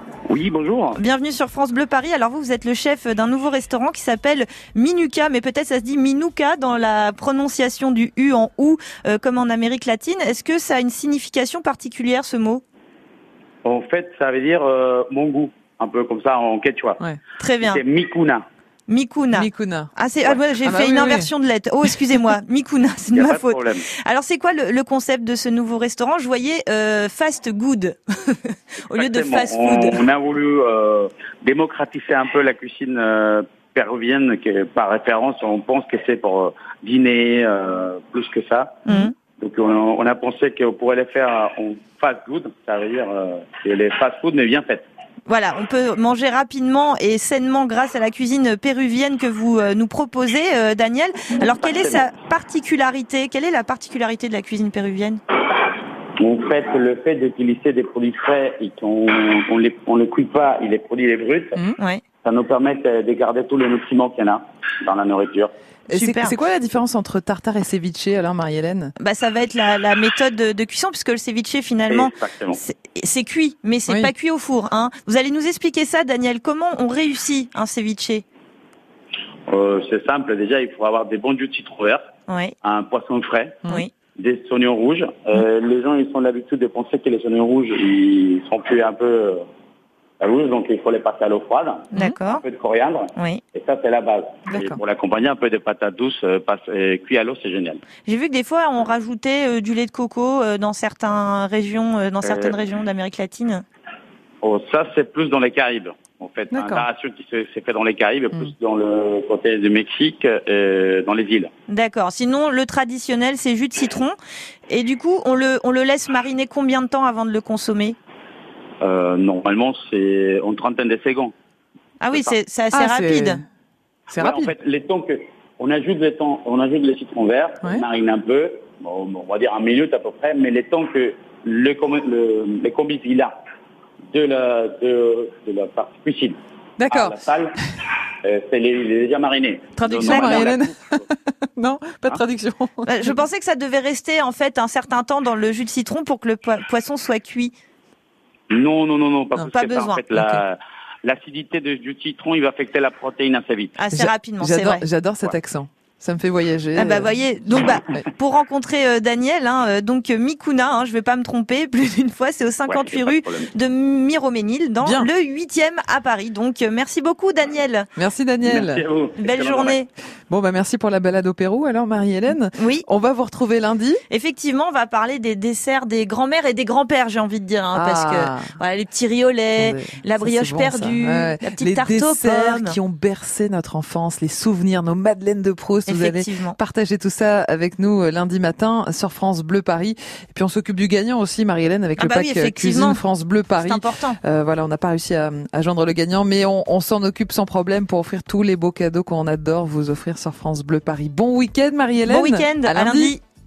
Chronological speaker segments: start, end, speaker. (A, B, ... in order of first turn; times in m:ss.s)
0:00.3-0:01.0 A
0:01.0-0:12.6 B
0:13.6-0:17.0 A
0:17.4-0:17.8 B
0:17.6-0:18.4 A
0:18.9-0:30.0 B
0:19.3-0:19.9 C
0:20.6-0:21.3 C
0:21.9-0:22.2 C
0:23.1-0:23.9 A
0:28.9-0:44.9 A
0:38.9-0:39.1 B
0:45.3-0:55.2 B
0:51.6-0:52.0 A
0:56.2-1:01.6 A
1:01.8-1:02.0 B
1:02.2-1:05.5 A
1:05.9-1:06.4 B
1:05.9-1:08.9 C
1:09.0-1:18.2 B
1:11.9-1:12.6 A
1:19.5-1:22.0 A
1:22.3-1:22.5 B
1:22.6-1:23.6 A
1:23.7-1:23.9 B
1:24.2-1:29.4 A
1:30.2-1:37.8 A
1:31.9-1:32.4 B
1:33.2-1:33.4 B
1:34.5-1:34.8 B
1:38.0-1:43.6 B
1:42.2-1:42.6 A
1:44.4-1:51.5 A
1:46.5-1:46.9 C
1:51.7-1:54.2 B
1:54.7-1:58.0 B
1:58.8-2:01.3 A
2:02.0-2:03.4 B
2:02.1-2:02.4 A
2:02.7-2:03.4 C
2:04.1-2:04.5 C
2:04.1-2:13.3 A
2:14.1-2:17.6 A
2:16.8-2:17.1 C
2:18.2-2:21.1 A
2:19.8-2:20.5 B
2:20.0-2:23.2 C
2:22.9-2:27.5 B
2:28.5-2:33.8 A
2:29.5-2:30.0 B
2:30.2-2:30.4 C
2:33.8-2:34.8 B
2:33.9-2:37.2 C
2:36.8-2:47.9 B
2:42.7-2:43.5 A
2:44.8-2:45.1 C
2:48.0-2:48.8 C
2:48.4-2:49.8 A
2:49.2-2:49.9 B
2:50.3-2:54.0 C
2:52.6-2:52.8 B
2:54.1-3:02.8 B
2:57.7-2:58.6 C
2:59.5-3:23.2 C
3:05.9-3:06.6 B
3:12.0-3:13.0 B
3:13.6-3:14.2 B
3:22.0-3:23.2 B